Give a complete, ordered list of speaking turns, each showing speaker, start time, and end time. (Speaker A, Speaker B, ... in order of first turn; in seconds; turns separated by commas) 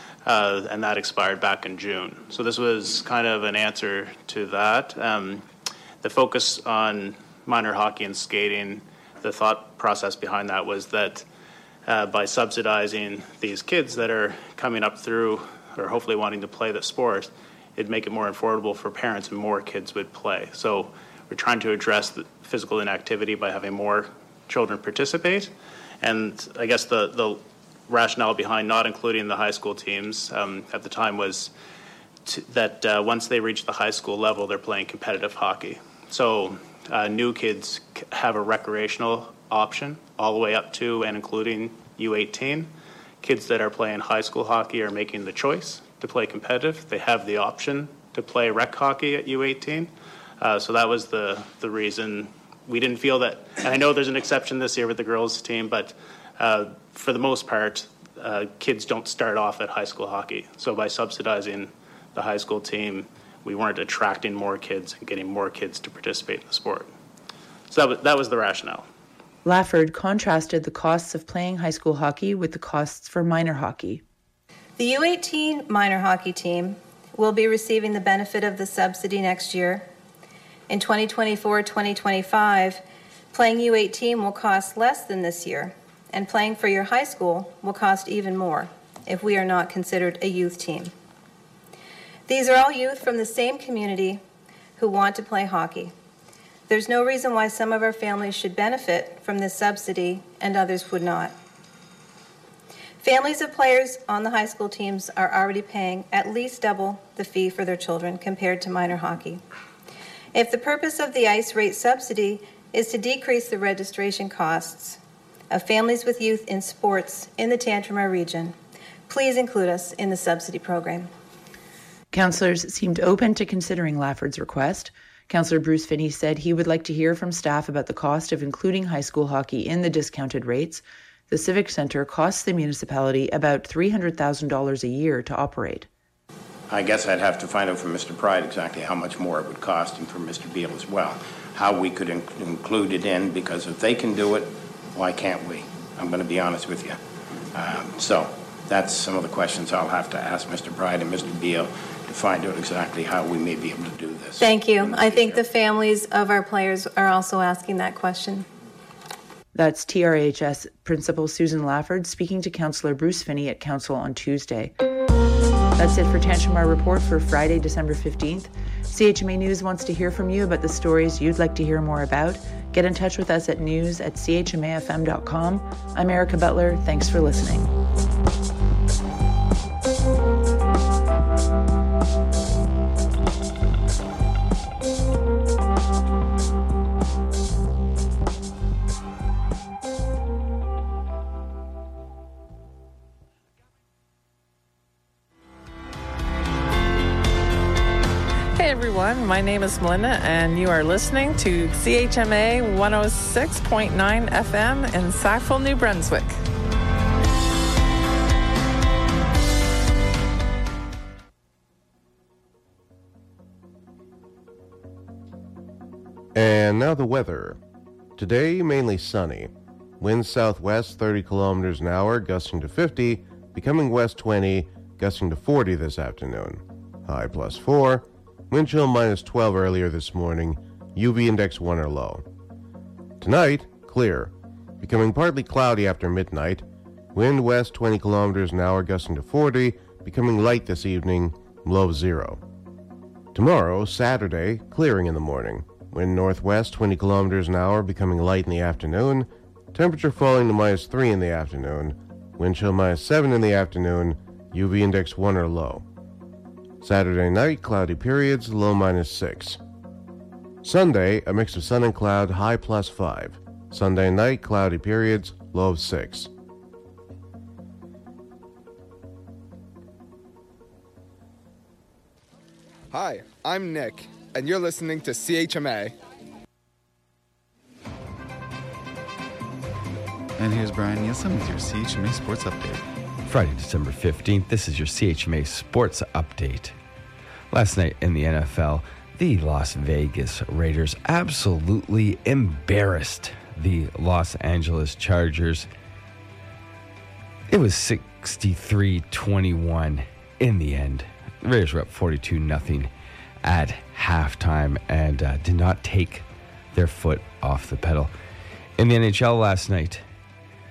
Speaker A: 0.2-5.4, Speaker A: 6.0-11.2, Speaker A: 11.9-31.5, Speaker A: 32.2-42.7, Speaker A: 43.2-66.9, Speaker A: 67.7-68.8, Speaker B: 69.4-74.0, Speaker C: 74.8-79.8, Speaker C: 80.7-90.9, Speaker C: 92.3-94.2, Speaker C: 94.8-95.9, Speaker C: 96.7-101.3, Speaker C: 103.0-109.4, Speaker C: 110.3-115.0, Speaker C: 115.5-118.5, Speaker C: 119.1-121.1, Speaker B: 122.1-135.9, Speaker D: 136.7-147.0, Speaker D: 147.5-155.4, Speaker C: 154.4-158.4, Speaker B: 159.5-164.7, Speaker B: 165.8-177.7, Speaker E: 198.6-206.4, Speaker F: 216.3-217.6, Speaker F: 218.2-232.2, Speaker F: 233.2-236.6, Speaker F: 237.2-242.4, Speaker F: 243.3-255.8, Speaker F: 256.8-259.6, Speaker F: 260.6-266.3, Speaker G: 272.9-275.9, Speaker H: 280.4-282.8, Speaker I: 283.2-286.7, Speaker I: 287.5-295.7, Speaker I: 297.5-302.9, Speaker I: 303.4-308.1, Speaker I: 308.8-310.0